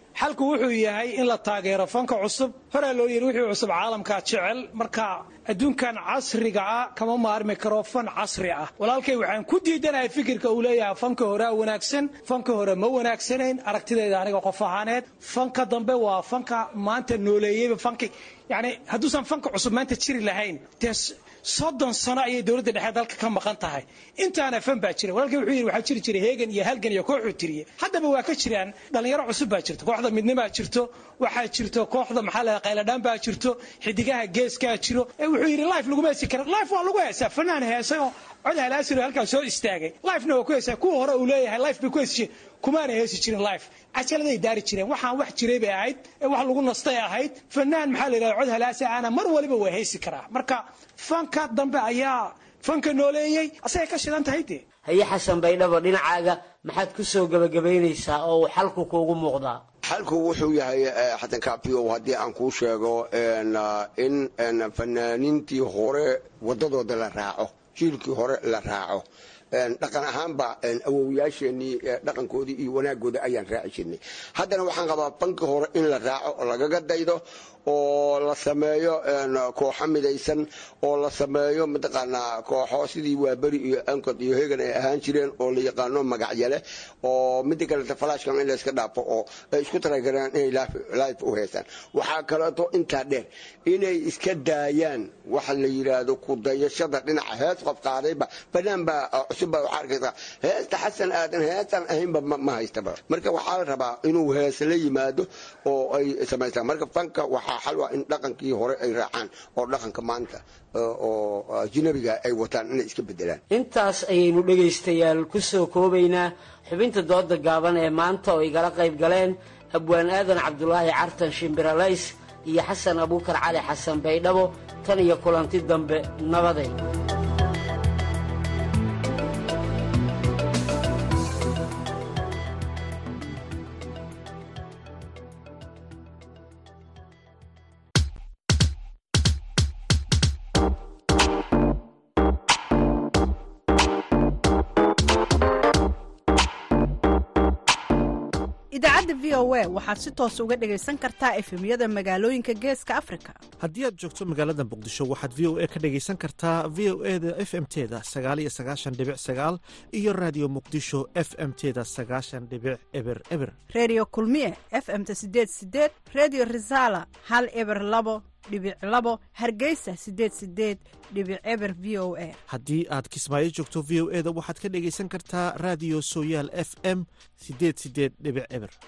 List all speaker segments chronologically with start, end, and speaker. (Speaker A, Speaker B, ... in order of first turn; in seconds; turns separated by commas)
Speaker A: 0.2-54.6, Speaker B: 54.9-59.6, Speaker C: 59.9-113.4, Speaker B: 113.5-126.8, Speaker D: 148.7-153.4, Speaker E: 153.6-163.5, Speaker D: 163.7-172.4, Speaker E: 172.5-178.8